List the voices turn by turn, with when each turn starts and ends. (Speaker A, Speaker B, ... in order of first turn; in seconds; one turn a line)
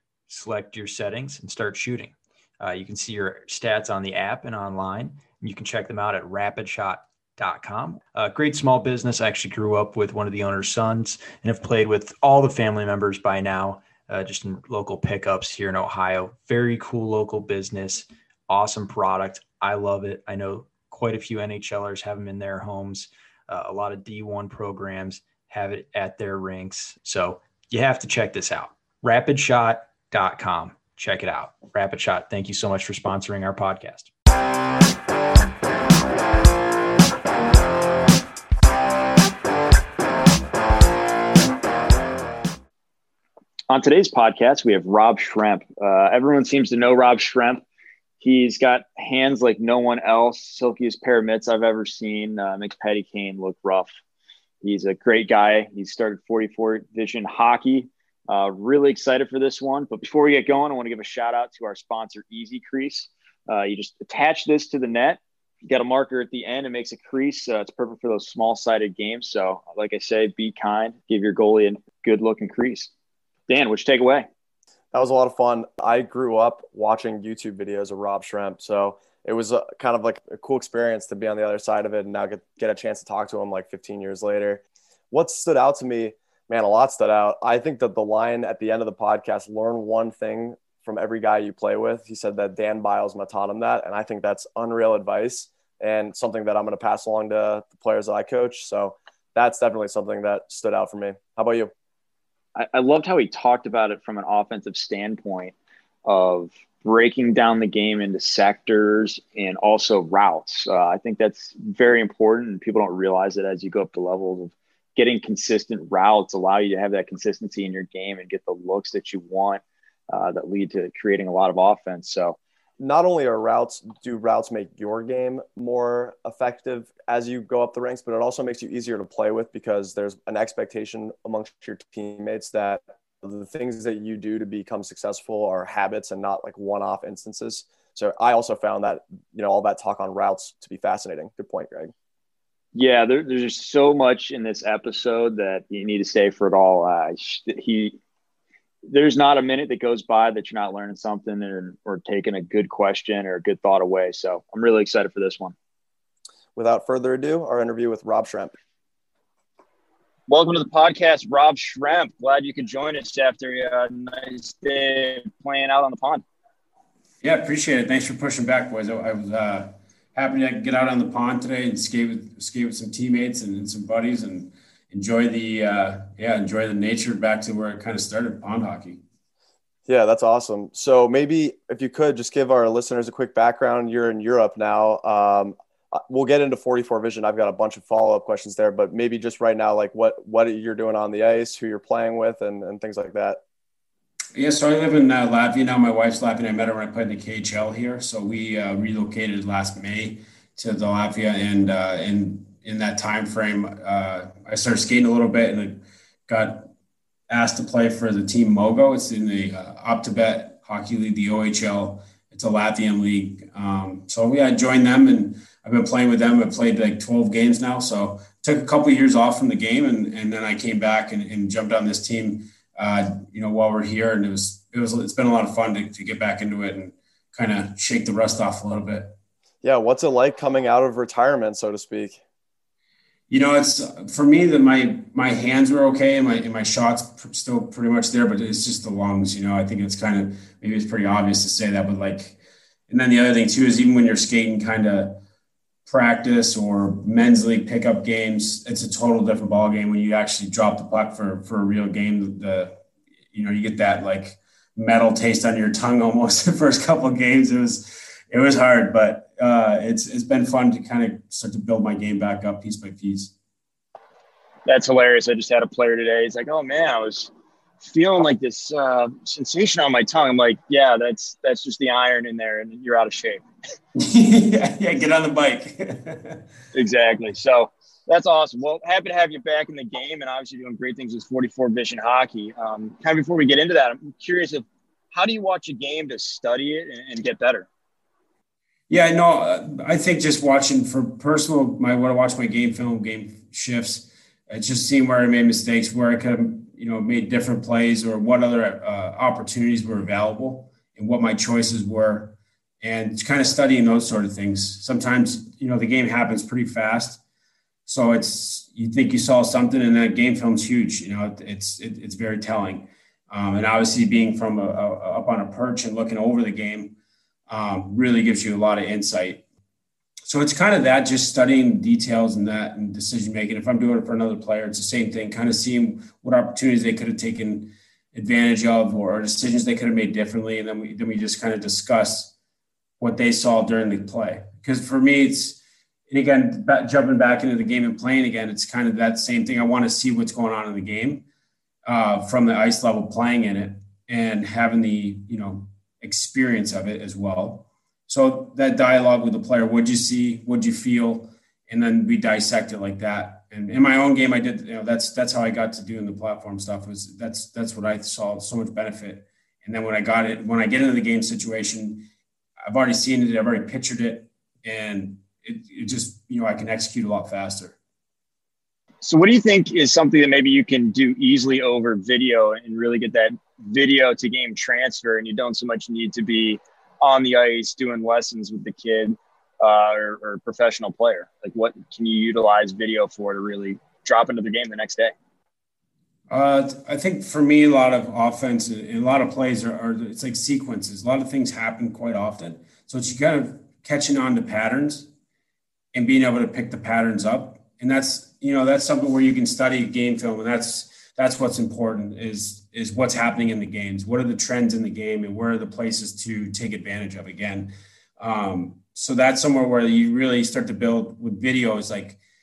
Speaker A: 0.3-34.1
Speaker B: 43.7-47.6
Speaker B: 48.2-53.9
Speaker B: 54.6-72.9
Speaker B: 73.5-74.3
Speaker C: 74.9-101.7
Speaker B: 102.5-122.4
Speaker C: 122.8-141.9
Speaker B: 142.7-148.0
Speaker B: 148.9-155.5
Speaker C: 156.6-158.5
Speaker B: 160.3-166.2
Speaker D: 167.2-179.0
Speaker C: 179.9-193.4
Speaker D: 194.3-206.7
Speaker D: 207.3-229.1
Speaker C: 229.6-232.2
Speaker D: 233.3-242.4
Speaker D: 242.9-245.2
Speaker D: 245.8-252.8
Speaker D: 253.3-263.3
Speaker B: 264.6-273.4
Speaker D: 273.9-276.4
Speaker B: 276.7-287.7
Speaker D: 288.9-307.2
Speaker D: 307.9-316.9
Speaker D: 317.5-319.4
Speaker D: 320.3-332.3
Speaker D: 333.0-341.2
Speaker D: 341.8-362.1
Speaker D: 362.7-367.7
Speaker B: 369.0-385.1
Speaker D: 386.3-395.1
Speaker D: 395.9-412.2